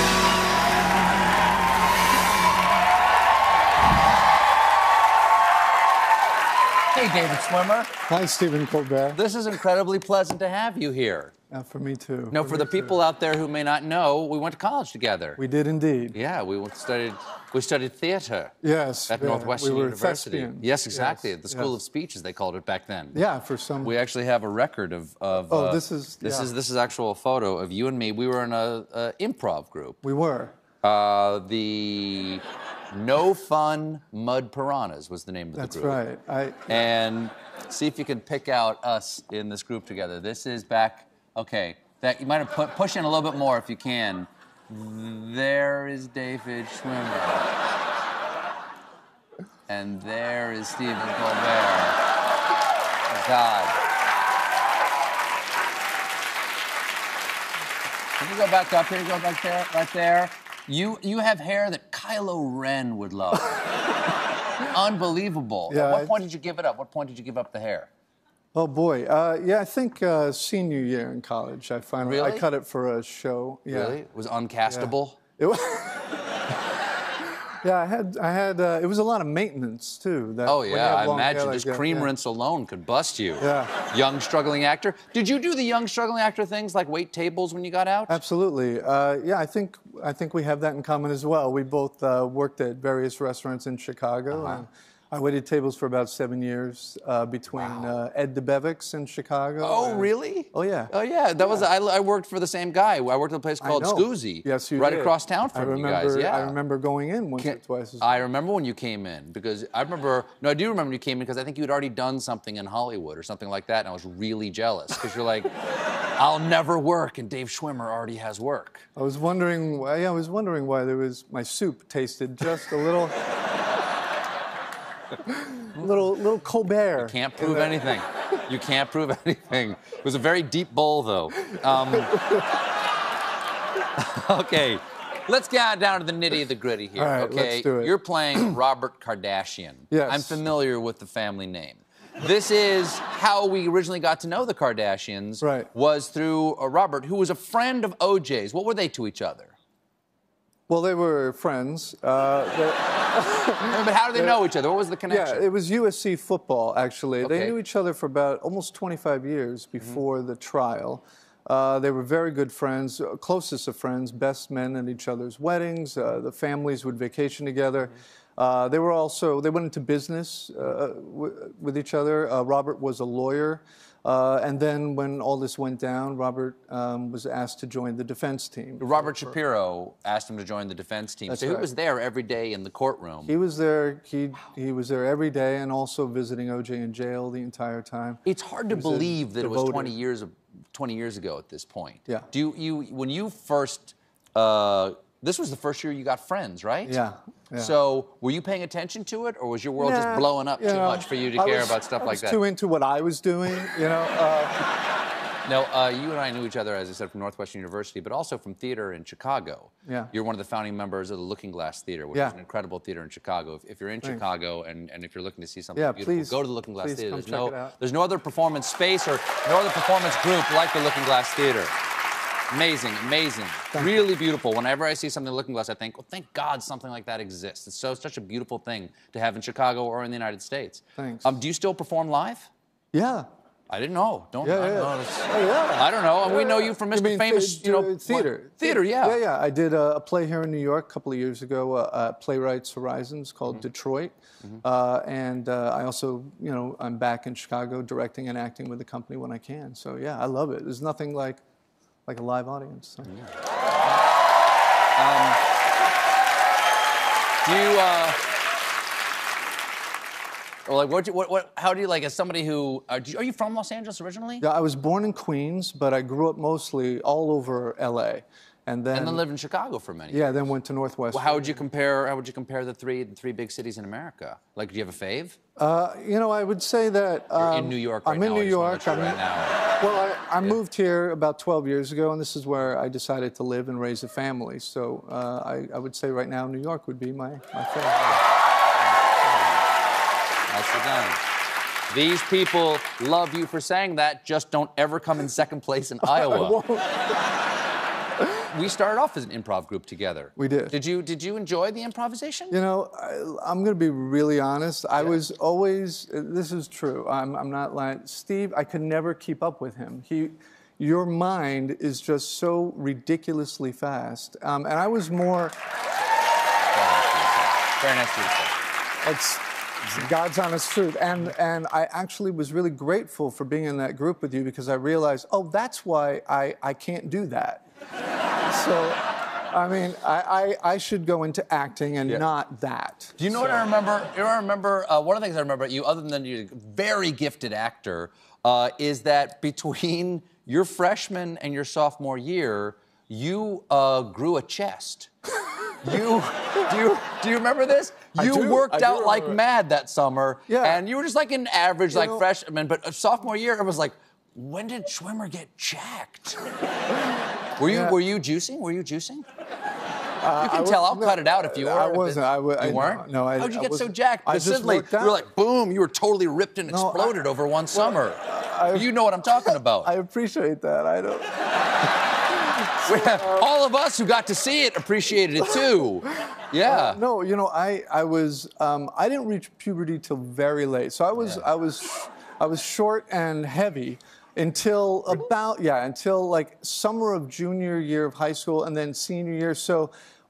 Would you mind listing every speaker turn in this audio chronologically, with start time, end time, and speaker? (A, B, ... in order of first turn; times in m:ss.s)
0:06.9-0:07.9 A
0:08.1-0:09.2 B
0:09.1-0:11.3 A
0:11.5-0:13.0 B
0:12.3-0:15.4 A
0:15.4-0:16.2 B
0:16.1-0:18.5 A
0:18.6-0:21.7 B
0:19.1-0:23.2 A
0:23.1-0:23.9 B
0:23.8-0:30.0 A
0:25.5-0:26.5 B
0:30.0-0:30.5 B
0:30.8-0:36.0 A
0:35.6-0:36.8 B
0:36.7-0:47.5 A
0:49.7-0:52.0 A
0:53.1-0:53.8 A
0:58.2-1:03.6 A
1:04.6-1:07.9 A
1:05.7-1:06.2 B
1:08.5-1:14.0 B
1:12.0-1:12.4 A
1:13.7-1:15.2 A
1:14.7-1:16.1 B
1:17.6-1:22.1 B
1:20.4-1:28.2 A
1:23.4-1:23.7 B
1:28.1-1:40.9 B
1:34.3-1:34.6 A
1:37.5-1:37.9 A
1:39.6-1:46.6 A
1:43.6-1:48.2 B
1:47.4-1:55.5 A
1:56.2-1:58.8 A
1:59.0-2:03.2 B
2:05.2-2:07.8 B
2:07.0-2:12.3 A
2:11.5-2:12.6 B
2:13.9-2:29.6 A
2:16.9-2:18.5 B
2:19.9-2:20.4 B
2:25.4-2:25.7 B
2:30.7-2:34.4 B
2:33.6-2:35.5 A
2:35.1-2:59.4 B
2:37.2-2:37.5 A
2:58.8-3:03.3 A
3:01.3-3:01.7 B
3:03.2-3:09.9 B
3:08.2-3:17.0 A
3:16.8-3:17.7 B
3:17.6-3:22.4 A
3:19.8-3:24.7 B
3:25.4-3:41.7 A
3:29.8-3:30.1 B
3:35.7-3:37.7 B
3:42.5-3:52.5 A
3:43.7-3:44.0 B
3:51.0-3:51.4 B
3:52.9-3:53.2 B
3:53.7-3:59.2 A
3:54.4-4:11.4 B
4:12.0-4:13.1 B
4:13.1-4:13.3 A
4:15.0-4:15.4 A
4:17.4-4:18.2 A
4:20.6-4:24.4 A
4:24.4-4:29.2 B
4:28.9-4:30.5 A
4:30.1-4:31.6 B
4:31.1-4:35.4 A
4:35.6-4:48.2 B
4:37.4-4:39.6 A
4:50.5-4:51.2 A
4:51.9-4:56.6 A
4:56.0-4:57.0 B
4:58.4-5:02.6 A
5:00.4-5:00.7 B
5:02.5-5:15.5 B
5:16.7-5:18.5 A
5:19.0-5:27.6 B
5:28.5-5:33.6 B
5:33.2-5:45.1 A
5:45.8-5:56.5 A
5:48.1-5:49.4 B
5:50.5-5:50.8 B
5:51.9-5:52.3 B
5:57.6-5:59.2 A
5:57.6-5:58.0 B
6:00.2-6:05.2 B
6:00.4-6:09.9 A
6:06.7-6:11.4 B
6:12.4-6:13.5 B
6:12.8-6:17.0 A
6:16.6-6:29.9 B
6:21.2-6:21.4 A